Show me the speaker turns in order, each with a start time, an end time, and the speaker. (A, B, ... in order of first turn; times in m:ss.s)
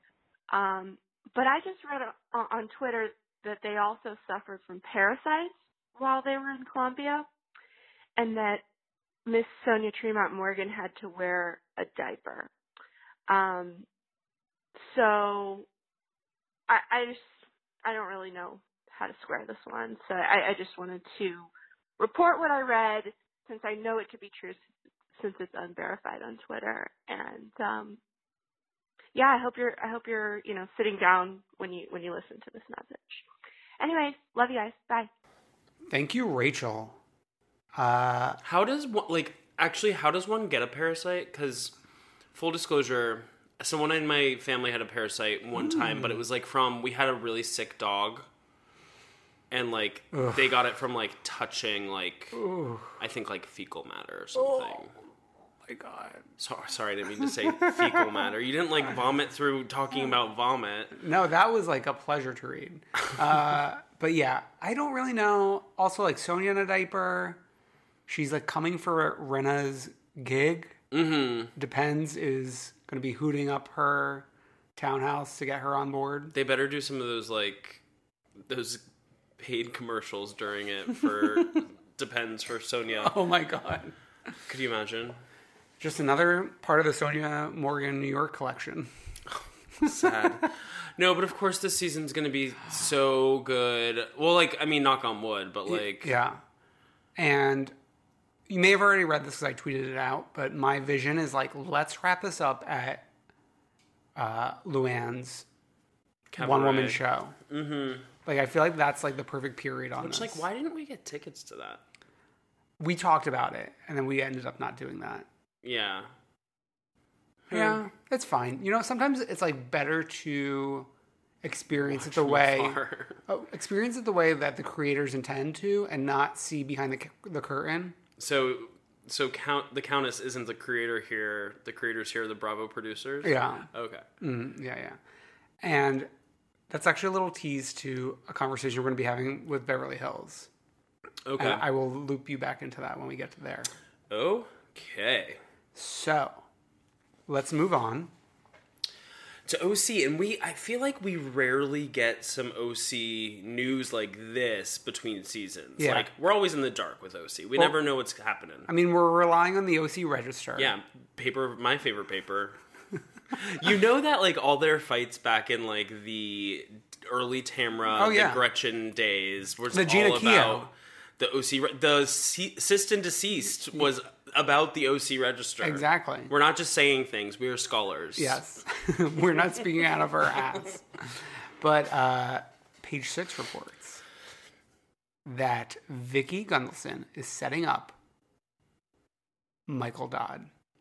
0:00.5-0:07.3 A
0:08.2-0:08.6 A
0:09.2-0:12.5 A
0:13.3-0:13.8 A
0:14.8-0:15.6 A
0:16.7-0:24.6 A
0:25.2-0:28.0 A
0:29.1-0:33.2 A
0:33.8-0:35.1 A
0:35.9-0:37.0 B
0:37.7-0:38.4 B
0:38.4-0:41.7 C
0:42.3-0:48.3 C
0:45.7-0:46.1 B
0:49.5-0:52.4 C
0:50.1-0:50.4 B
0:52.3-0:53.0 B
0:53.0-0:54.9 C
0:55.7-0:56.2 B
0:56.4-1:00.9 C
1:00.9-1:07.4 B
1:08.1-1:10.8 B
1:10.9-1:11.5 C
1:11.5-1:16.3 B
1:16.3-1:17.8 C
1:18.5-1:18.8 C
1:19.4-1:23.1 C
1:23.0-1:23.9 B
1:24.5-1:25.2 C
1:25.8-1:28.9 B
1:29.8-1:36.1 C
1:29.9-1:30.2 B
1:35.7-1:36.4 B
1:37.2-1:37.7 B
1:38.5-1:43.0 B
1:44.2-1:45.4 B
1:46.3-1:48.1 C
1:46.4-1:47.4 B
1:48.2-1:50.4 B
1:50.0-1:51.8 C
1:52.8-1:55.2 B
1:55.6-1:56.1 C
1:57.5-1:57.8 C
1:57.5-2:00.9 B
2:01.4-2:08.0 B
2:01.8-2:03.2 C
2:08.2-2:14.0 C
2:13.2-2:13.7 B
2:14.2-2:15.0 B
2:15.6-2:16.1 B
2:16.7-2:20.5 B
2:21.2-2:21.6 C
2:21.4-2:23.7 B
2:24.1-2:25.4 C
2:25.7-2:26.4 B
2:27.3-2:28.1 B
2:29.4-2:38.7 C
2:35.8-2:36.1 B
2:38.7-2:40.7 B
2:40.6-2:42.6 C
2:43.3-2:58.4 C
2:47.9-2:48.4 B
2:49.7-2:50.7 B
2:55.6-2:56.3 B
2:58.2-3:04.0 B
3:05.2-3:08.0 B
3:09.7-3:10.5 B